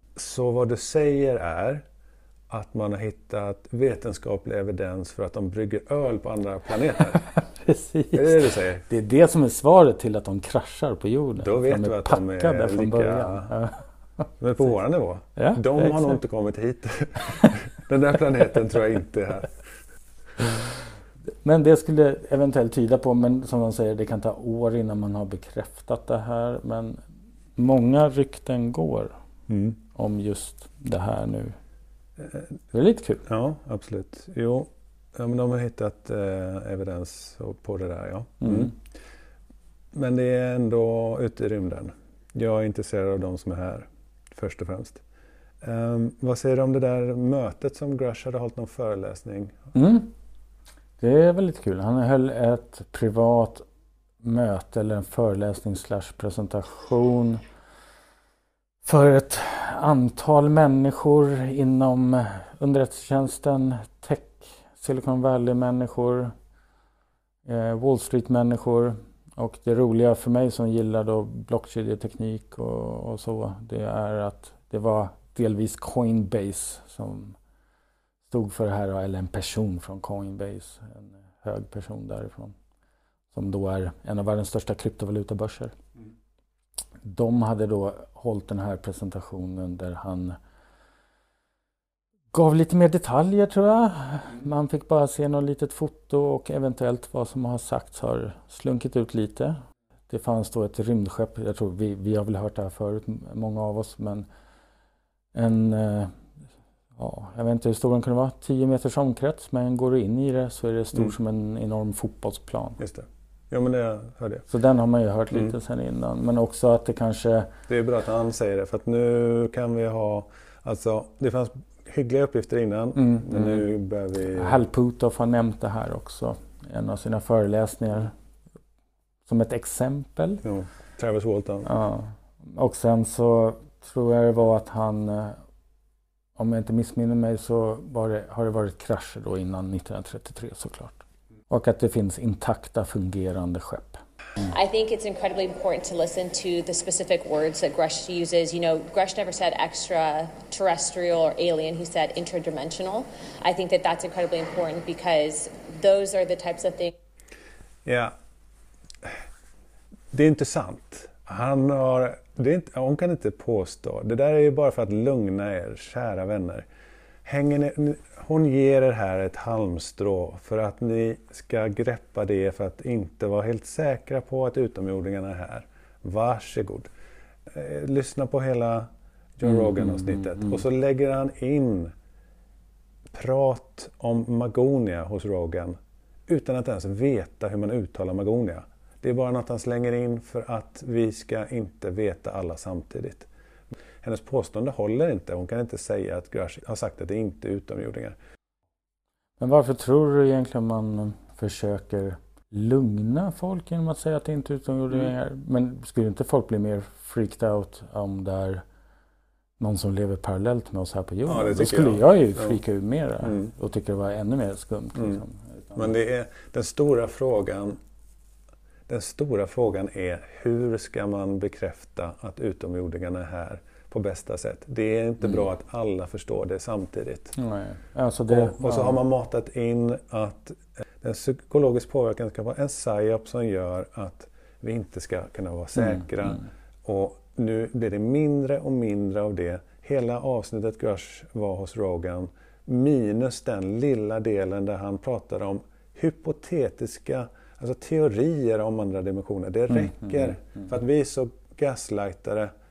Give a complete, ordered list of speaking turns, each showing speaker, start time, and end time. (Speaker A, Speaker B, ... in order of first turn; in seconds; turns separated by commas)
Speaker A: 0.2-1.8, Speaker A: 2.5-7.3, Speaker B: 7.4-14.3, Speaker A: 8.1-8.8, Speaker A: 11.4-13.5, Speaker A: 14.4-19.6, Speaker B: 15.4-16.2, Speaker B: 17.2-17.6, Speaker B: 21.4-27.0, Speaker B: 27.6-29.2, Speaker A: 29.5-29.8, Speaker B: 29.9-31.6, Speaker B: 32.7-33.2, Speaker A: 33.2-38.8, Speaker B: 38.4-38.7, Speaker A: 39.9-45.0, Speaker A: 45.6-49.6, Speaker B: 49.7-50.1, Speaker B: 51.0-53.7, Speaker B: 54.2-57.4, Speaker B: 58.8-66.3, Speaker B: 67.5-77.4, Speaker B: 78.3-82.5, Speaker B: 83.3-85.7, Speaker B: 87.0-90.4, Speaker B: 92.3-104.3, Speaker B: 105.3-106.2, Speaker B: 107.0-112.8, Speaker A: 112.8-114.5, Speaker B: 114.5-117.5, Speaker A: 117.7-124.6, Speaker B: 123.0-123.6, Speaker B: 124.3-128.1, Speaker B: 129.3-130.4, Speaker A: 130.4-131.7, Speaker B: 131.7-135.4, Speaker B: 136.4-144.5, Speaker C: 144.5-156.9, Speaker A: 157.8-158.1, Speaker A: 160.1-166.7, Speaker A: 167.2-176.9, Speaker A: 177.5-181.9, Speaker B: 179.4-180.6, Speaker A: 183.1-193.3, Speaker A: 194.0-198.2, Speaker B: 199.4-208.6, Speaker B: 209.6-215.9, Speaker A: 211.3-212.6, Speaker A: 213.2-213.5, Speaker A: 215.7-217.8, Speaker A: 218.9-227.3, Speaker B: 227.4-229.0, Speaker A: 228.3-252.5, Speaker B: 235.8-236.4, Speaker B: 249.7-250.6